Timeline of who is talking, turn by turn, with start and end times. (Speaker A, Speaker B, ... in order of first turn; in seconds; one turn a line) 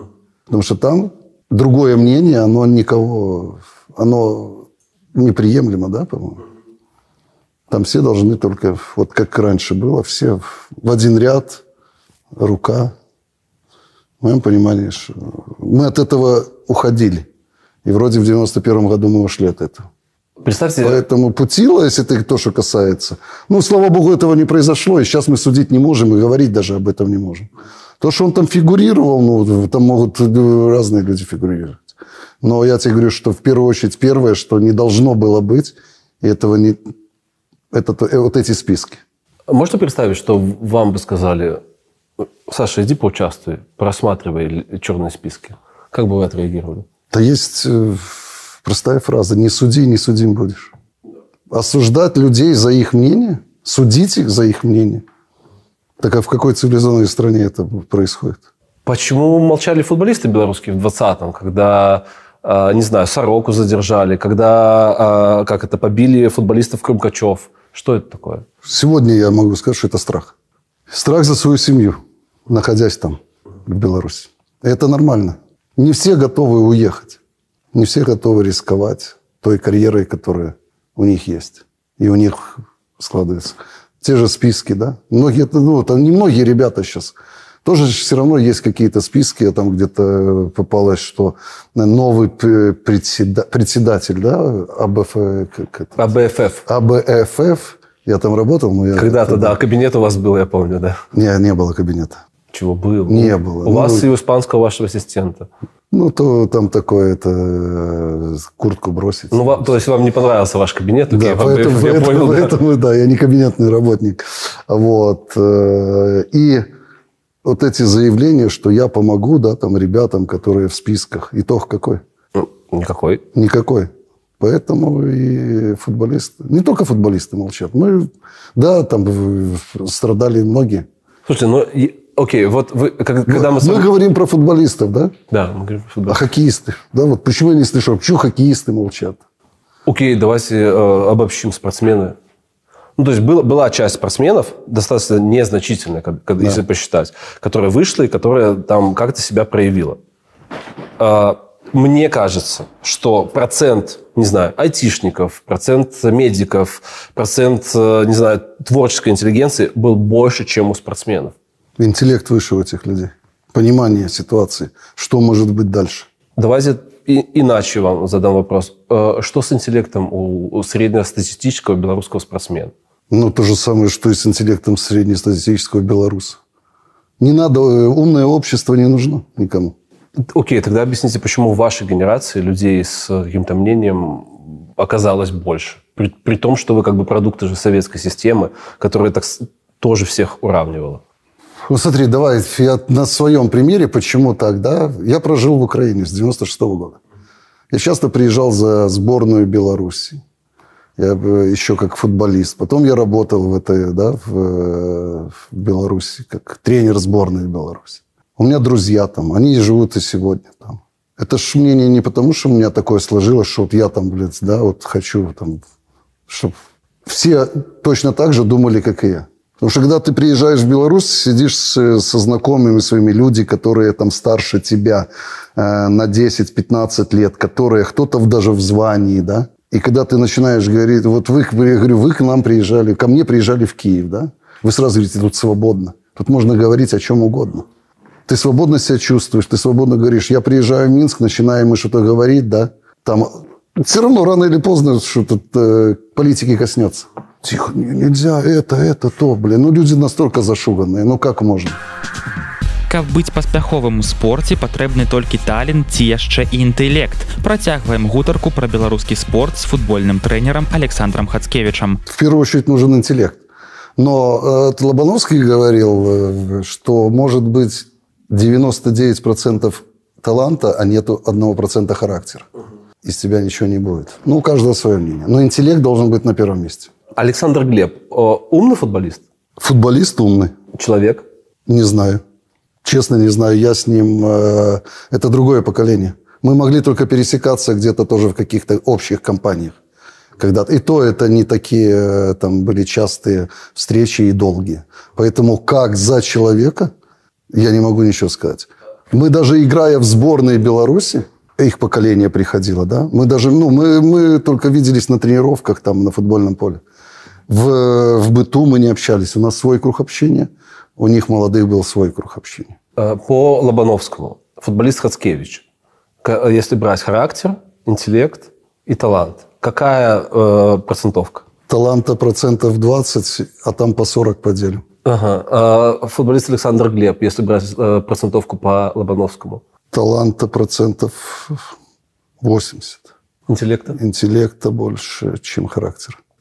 Speaker A: 0.5-6.4
Speaker A: 7.7-11.6
Speaker A: 12.3-12.9
Speaker A: 14.2-17.3
Speaker A: 17.8-19.9
Speaker B: 20.4-21.0
Speaker A: 20.8-27.5
Speaker A: 28.0-36.8
Speaker A: 37.7-39.0
Speaker B: 39.5-41.6
Speaker B: 42.5-46.9
Speaker A: 47.1-50.7
Speaker A: 51.5-55.0
Speaker A: 56.0-58.4
Speaker B: 58.9-68.5
Speaker A: 68.6-70.3
Speaker A: 70.9-77.2
Speaker A: 77.7-96.1
Speaker B: 96.0-96.6
Speaker A: 96.6-99.6
Speaker B: 99.0-101.0
Speaker A: 101.1-102.2
Speaker B: 102.5-105.5
Speaker A: 103.1-104.1
Speaker A: 105.9-109.7
Speaker B: 109.3-112.5
Speaker A: 111.1-116.7
Speaker A: 117.4-122.0
Speaker B: 122.3-123.2
Speaker A: 123.3-130.9
Speaker B: 131.2-133.8
Speaker A: 133.3-135.2
Speaker B: 135.3-136.2
Speaker A: 136.1-139.2
Speaker B: 139.8-142.2
Speaker B: 143.0-150.0
Speaker B: 151.0-161.3
Speaker A: 161.8-166.1
Speaker B: 166.3-172.7
Speaker A: 173.1-176.4
Speaker A: 177.2-179.7
Speaker B: 180.3-191.0
Speaker A: 191.7-197.0
Speaker A: 197.7-200.2
Speaker A: 201.0-215.6
Speaker A: 216.3-237.7
Speaker A: 238.3-251.8
Speaker C: 252.9-262.0
Speaker A: 262.1-263.4
Speaker A: 264.0-272.5
Speaker A: 273.0-276.9
Speaker B: 277.1-279.2
Speaker A: 279.6-280.5
Speaker B: 280.7-281.2
Speaker A: 281.6-282.2
Speaker A: 282.8-289.8
Speaker A: 290.4-296.9
Speaker A: 297.5-306.8
Speaker A: 307.5-312.8
Speaker B: 313.0-315.6
Speaker B: 316.2-321.4
Speaker A: 321.7-324.8
Speaker B: 325.0-329.6
Speaker A: 329.9-331.7
Speaker A: 332.4-333.1
Speaker B: 333.5-334.0
Speaker A: 333.9-336.2